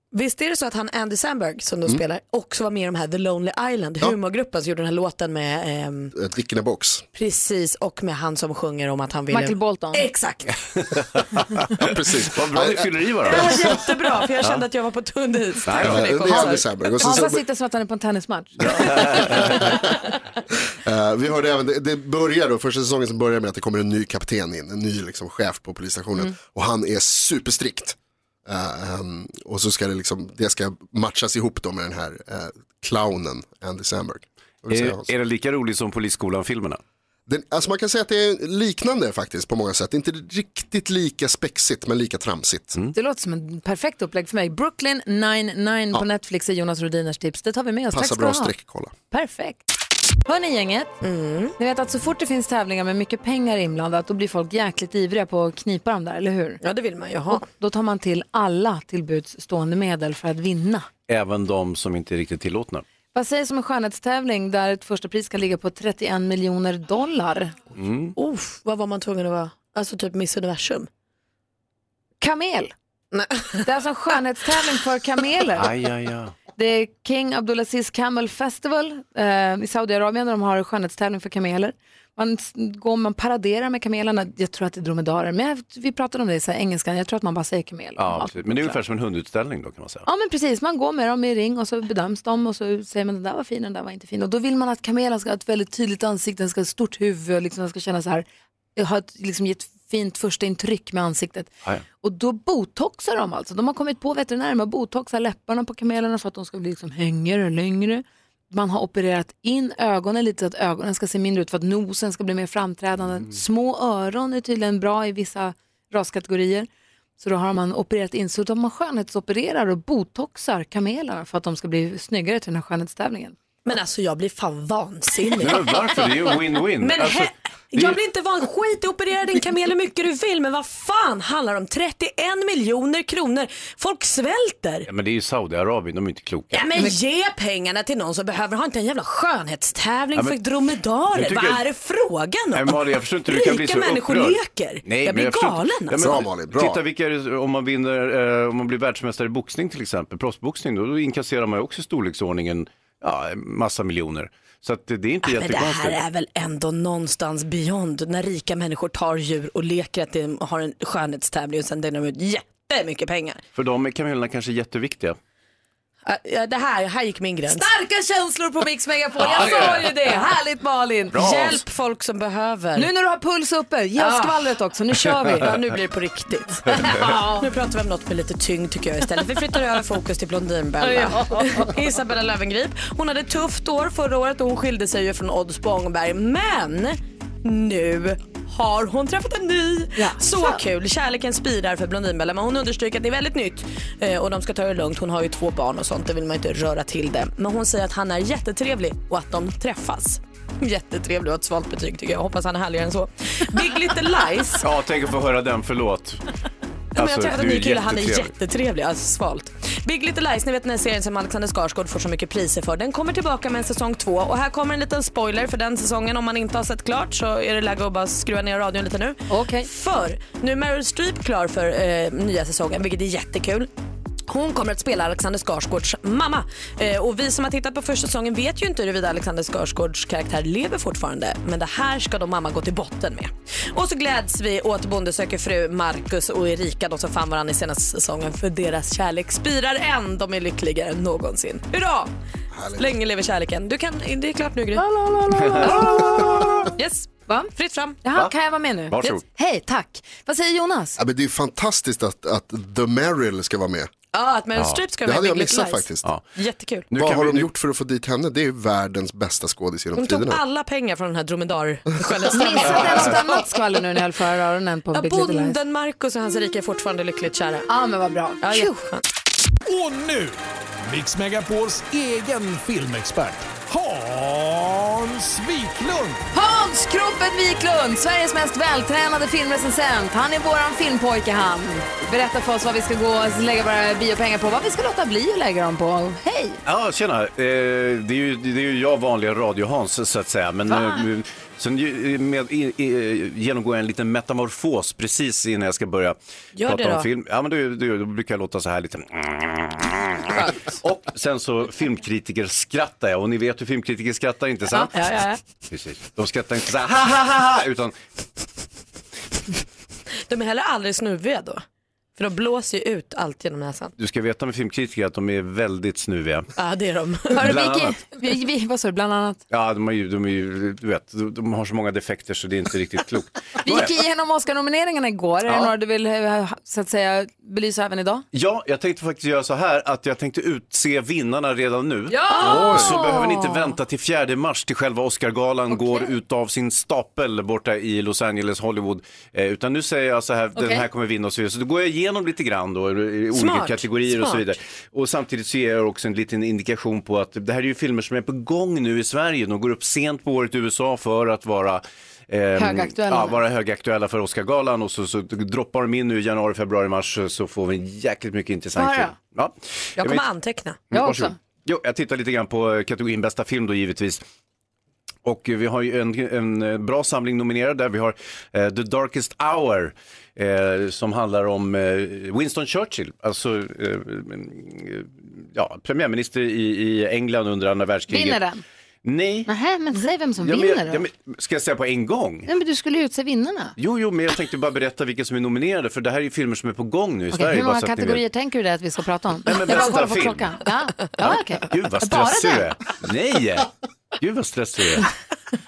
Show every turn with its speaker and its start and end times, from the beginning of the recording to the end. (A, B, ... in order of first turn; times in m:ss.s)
0:00.1-0:06.1 A
0:06.1-0:07.0 B
0:07.1-0:10.5 A
0:09.3-0:10.1 C
0:11.4-0:13.6 D
0:11.8-0:12.9 B
0:13.2-0:17.0 A
0:15.6-0:16.5 D
0:15.8-0:17.4 B
0:17.0-0:18.9 C
0:18.6-0:19.6 D
0:19.4-0:19.8 B
0:20.8-0:28.0 B
0:28.5-0:35.1 B
0:34.7-0:36.8 D
0:37.3-0:42.8 B
0:42.9-0:48.5 C
0:47.9-0:48.9 B
0:49.1-0:49.6 C
0:50.2-0:50.9 C
0:51.0-0:51.5 A
0:51.6-0:56.6 C
0:56.6-0:57.4 A
0:57.3-1:00.9 C
1:01.1-1:02.8 D
1:03.1-1:07.5 C
1:07.7-1:08.1 D
1:08.2-1:10.9 A
1:12.2-1:12.7 C
1:13.1-1:13.6 A
1:13.6-1:15.7 C
1:15.6-1:16.3 D
1:16.6-1:28.8 C
1:28.0-1:30.0 D
1:30.0-1:41.5 C
1:42.0-1:56.7 C
1:57.2-2:03.3 C
2:03.6-2:06.2 A
2:05.4-2:08.0 D
2:06.8-2:14.9 A
2:14.8-2:16.7 D
2:16.5-2:26.2 A
2:21.1-2:21.6 D
2:22.5-2:36.0 D
2:26.0-2:26.8 B
2:35.2-2:43.4 A
2:43.5-2:45.2 D
2:46.0-2:47.6 A
2:47.5-2:51.2 C
2:49.2-2:49.9 D
2:51.1-2:51.6 D
2:51.1-2:52.9 A
2:52.8-2:55.5 C
2:54.0-2:54.5 A
2:55.3-3:24.6 A
2:56.7-2:57.4 C
3:00.8-3:01.7 C
3:10.0-3:10.6 C
3:24.6-3:26.2 D
3:26.9-3:43.7 A
3:27.0-3:28.3 D
3:39.3-3:39.7 C
3:44.3-4:02.1 A
4:02.5-4:02.9 B
4:02.8-4:04.8 A
4:04.8-4:07.5 C
4:05.4-4:05.8 D
4:05.6-4:07.0 A
4:07.5-4:08.0 A
4:08.0-4:11.0 C
4:08.9-4:09.2 D
4:11.0-4:13.9 B
4:14.1-4:16.9 A
4:15.0-4:16.1 B
4:16.9-4:17.5 D
4:16.9-4:20.4 B
4:19.9-4:23.2 A
4:22.3-4:25.6 C
4:22.7-4:23.1 D
4:24.9-4:27.7 A
4:27.7-4:28.7 C
4:28.4-4:29.0 A
4:29.6-4:36.2 E
4:36.3-4:46.6 C
4:46.6-5:05.0 D
4:50.7-4:51.0 C
4:56.6-4:57.1 A
5:00.3-5:00.7 A
5:04.7-5:05.4 A
5:05.7-5:08.0 D
5:10.2-5:11.6 A
5:12.2-5:13.9 A
5:14.0-5:16.5 D
5:16.6-5:17.5 A
5:17.4-5:18.0 D
5:17.4-5:19.4 C
5:19.5-5:23.9 D
5:23.6-5:28.2 C
5:28.3-6:00.2 D
5:32.1-5:33.4 C
5:35.7-5:36.1 C
5:40.6-5:40.8 C
5:43.3-5:44.4 A
5:52.6-5:53.4 C
5:58.8-5:59.1 C
6:00.0-6:00.8 A
6:00.9-6:04.2 D
6:00.9-6:01.3 C
6:05.2-6:18.4 D
6:18.1-6:18.6 C
6:19.0-6:19.5 D
6:19.5-6:21.0 C
6:20.4-6:22.5 D
6:22.5-6:23.7 C
6:23.8-6:28.2 D
6:27.3-6:32.7 C
6:29.4-6:30.5 D
6:31.7-6:35.1 D